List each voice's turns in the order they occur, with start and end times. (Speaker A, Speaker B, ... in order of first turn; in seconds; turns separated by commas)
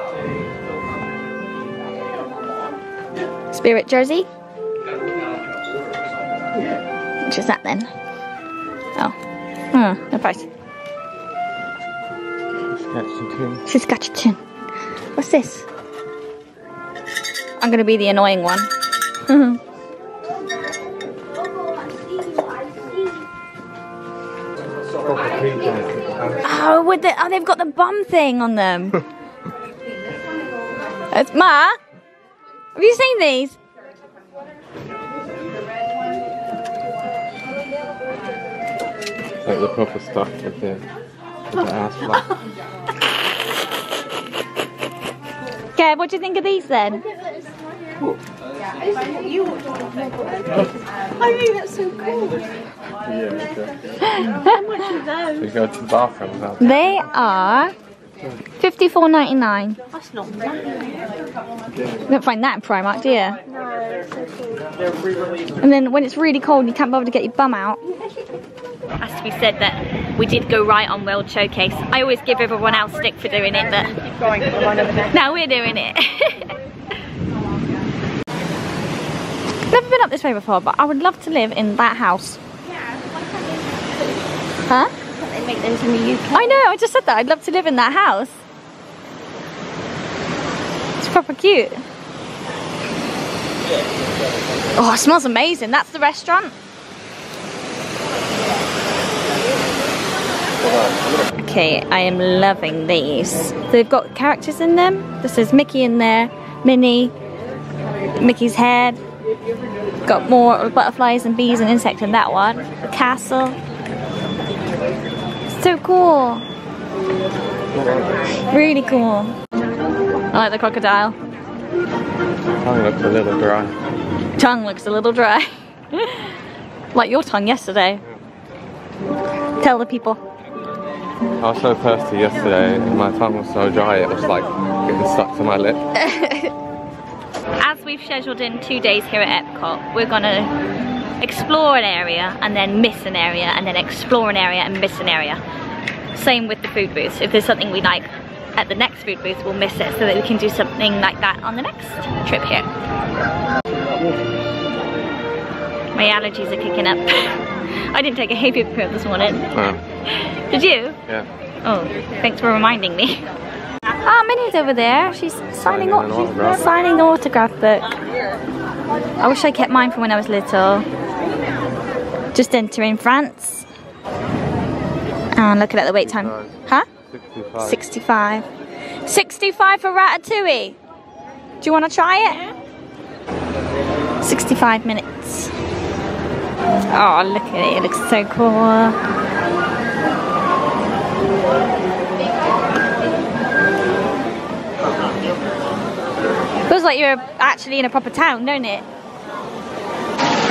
Speaker A: 3.5-4.3, Speaker A: 7.2-7.9, Speaker A: 9.7-10.5, Speaker B: 12.7-13.6, Speaker A: 13.7-14.4, Speaker A: 15.2-15.7, Speaker A: 17.6-18.7, Speaker A: 19.3-19.6, Speaker B: 25.1-26.5, Speaker A: 26.4-29.0, Speaker A: 31.1-31.8, Speaker A: 32.8-33.6, Speaker B: 39.4-40.8, Speaker B: 41.5-42.3, Speaker A: 45.7-47.0, Speaker C: 51.2-52.4, Speaker B: 53.1-53.7, Speaker A: 54.0-54.5, Speaker C: 54.3-55.5, Speaker B: 55.4-56.9, Speaker A: 56.6-57.7, Speaker A: 58.6-59.8, Speaker C: 59.9-60.9, Speaker A: 62.1-63.4, Speaker C: 63.5-64.4, Speaker A: 65.6-67.8, Speaker A: 69.0-73.9, Speaker A: 75.1-76.5, Speaker A: 79.7-82.4, Speaker C: 85.1-86.6, Speaker A: 86.3-88.4, Speaker A: 91.0-91.8, Speaker A: 94.8-96.5, Speaker B: 100.6-101.2, Speaker A: 101.3-107.1, Speaker A: 108.2-109.0, Speaker A: 110.0-113.6, Speaker A: 115.5-116.4, Speaker B: 117.7-118.2, Speaker A: 118.5-119.3, Speaker A: 120.3-121.2, Speaker B: 122.6-123.7, Speaker A: 124.4-126.3, Speaker A: 126.9-128.0, Speaker A: 129.6-130.2, Speaker B: 131.4-135.8, Speaker A: 135.9-136.5, Speaker A: 137.6-140.5, Speaker A: 141.2-145.4, Speaker A: 146.1-152.7, Speaker A: 155.9-159.5, Speaker B: 159.5-159.8, Speaker A: 160.1-161.0, Speaker A: 161.6-163.2, Speaker A: 164.0-167.9, Speaker B: 165.7-166.7, Speaker A: 169.2-170.8, Speaker A: 172.3-173.7, Speaker A: 175.3-176.9, Speaker B: 176.0-176.5, Speaker B: 177.1-177.8, Speaker A: 177.6-178.4, Speaker A: 179.0-180.8, Speaker A: 181.6-182.4, Speaker A: 184.2-185.5, Speaker A: 186.9-189.0, Speaker A: 196.7-198.8